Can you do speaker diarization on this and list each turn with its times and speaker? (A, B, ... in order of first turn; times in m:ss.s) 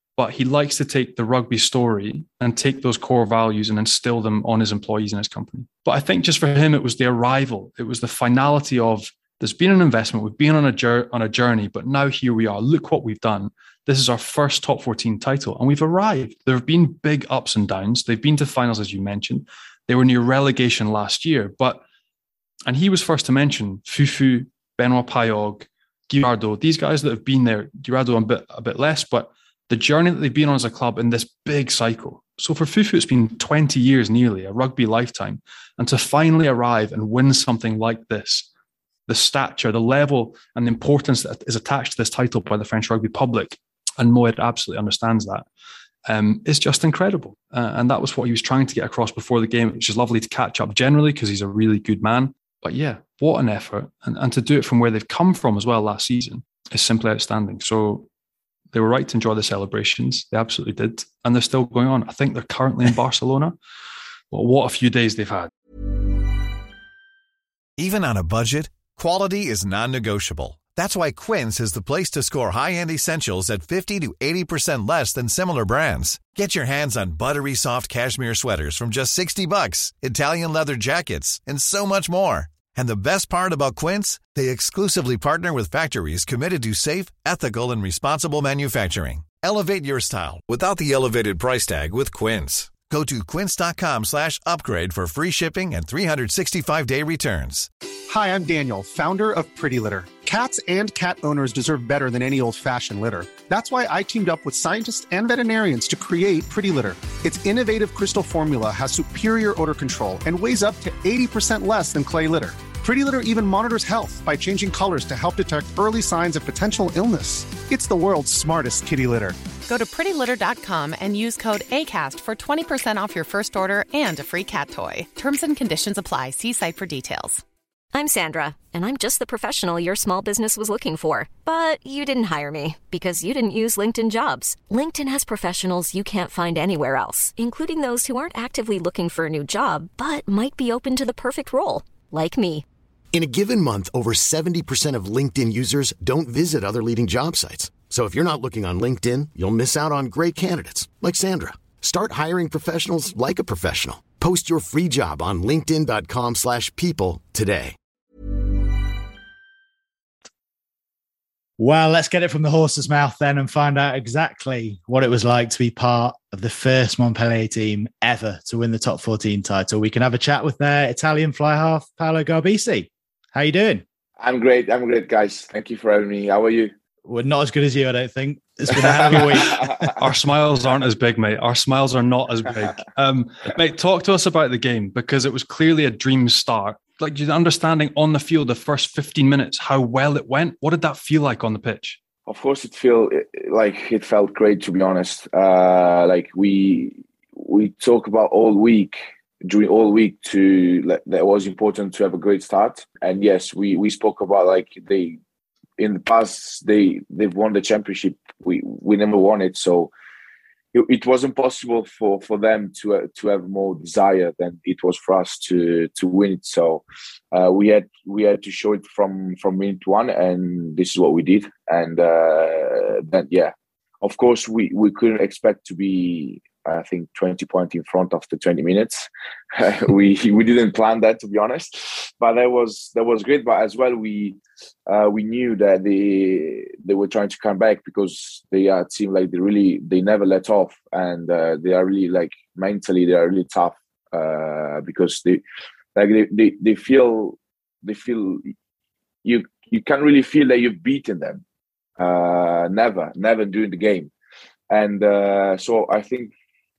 0:00.2-0:21.8 A
0:22.7-0:38.5 A
0:39.1-0:45.4 A
0:46.1-0:58.1 A
0:58.7-1:03.5 A
1:04.3-1:05.5 A
1:07.8-1:37.7 B
1:38.1-1:59.4 C
1:59.6-2:07.4 D
2:07.9-2:22.6 E
2:23.1-2:37.8 F
2:41.6-2:53.8 G
2:54.2-2:56.7 H
2:57.0-2:59.9 G
2:58.8-2:59.9 H
3:00.0-3:12.0 A
3:12.3-3:25.2 H
3:25.8-3:29.9 H
3:30.7-4:05.4 H
4:06.0-4:08.5 H
4:09.2-4:11.4 H
4:12.0-4:14.1 H
4:14.7-4:16.3 H